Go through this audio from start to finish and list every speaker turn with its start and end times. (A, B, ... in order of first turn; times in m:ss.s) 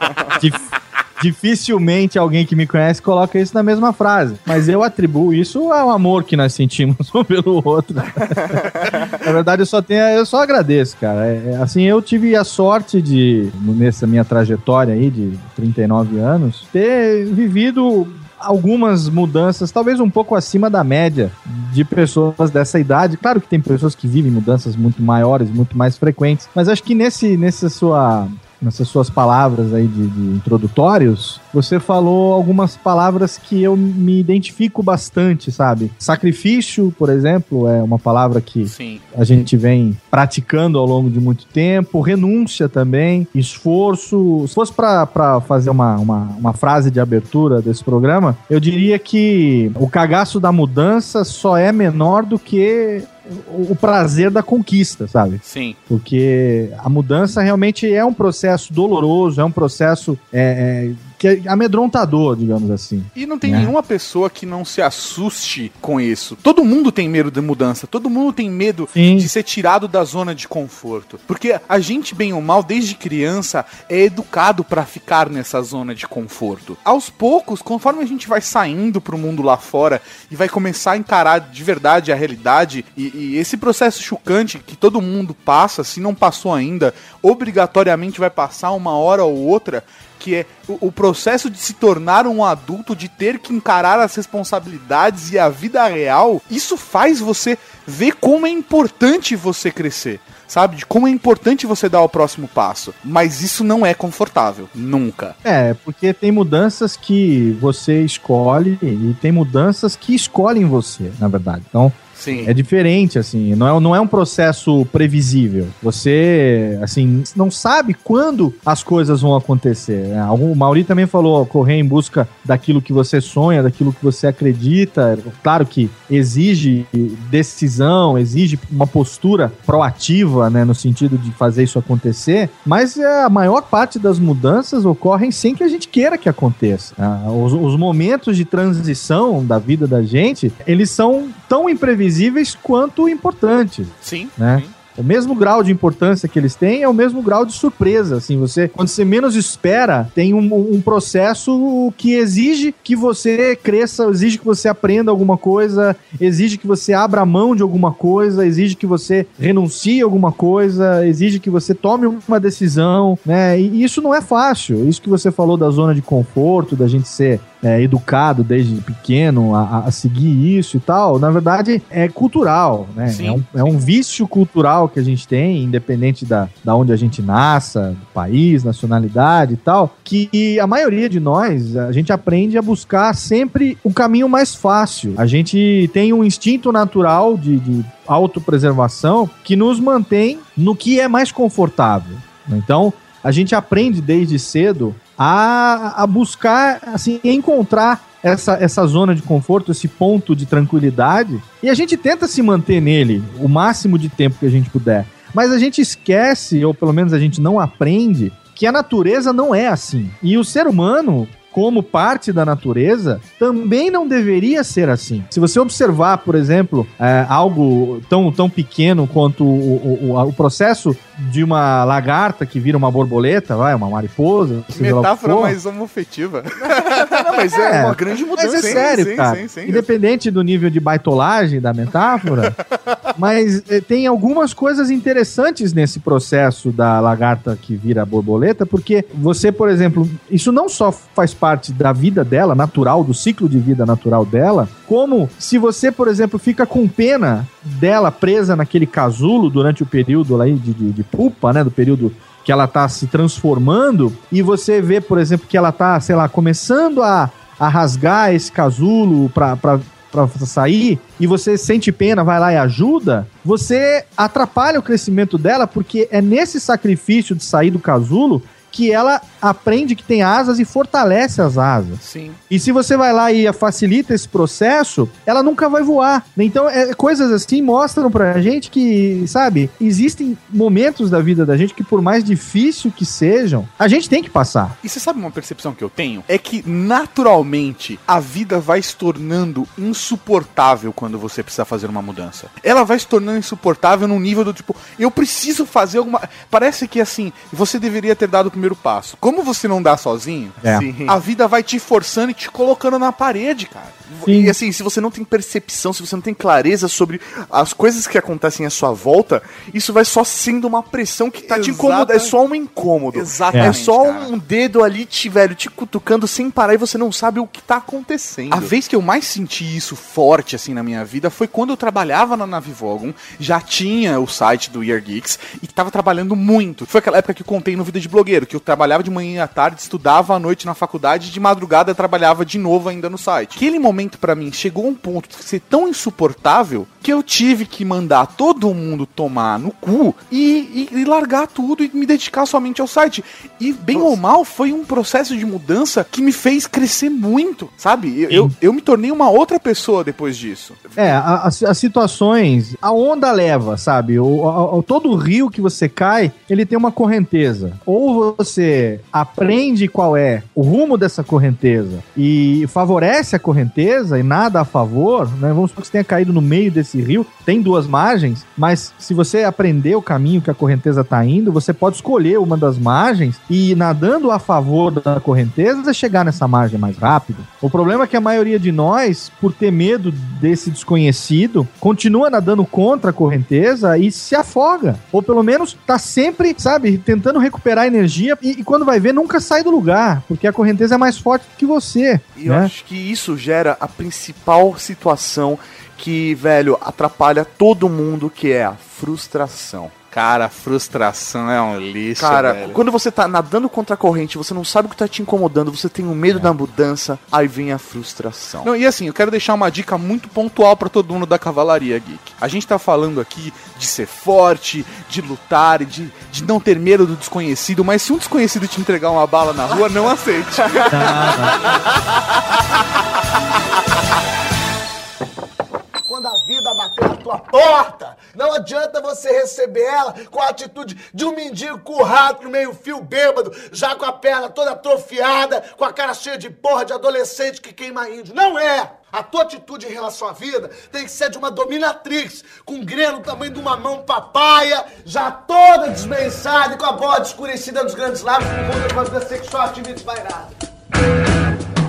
0:00.4-1:03.7 A
0:38.6-0:39.0 B
0:55.4-0:55.8 B
1:03.1-1:45.4 B
1:08.9-1:09.3 A
1:45.4-3:45.6 A
1:52.2-1:52.5 B
2:24.0-2:24.7 B
2:53.1-2:53.8 B
3:44.7-3:47.2 B
3:46.7-3:49.0 C
3:47.5-3:52.6 A
3:48.4-3:49.9 B
3:53.1-4:44.8 A
4:32.0-4:32.4 B
4:44.8-5:03.9 B
5:00.6-5:00.9 A
5:00.7-5:01.2 C
5:04.1-5:18.7 C
5:04.2-5:04.6 A
5:11.5-5:12.3 B
5:13.1-5:14.3 B
5:18.5-5:51.1 B
5:51.0-6:32.7 A
6:32.4-6:39.9 C
6:40.1-6:42.8 B
6:42.2-6:48.7 C
6:48.6-7:01.5 B
7:00.9-7:01.6 A
7:06.0-7:30.5 D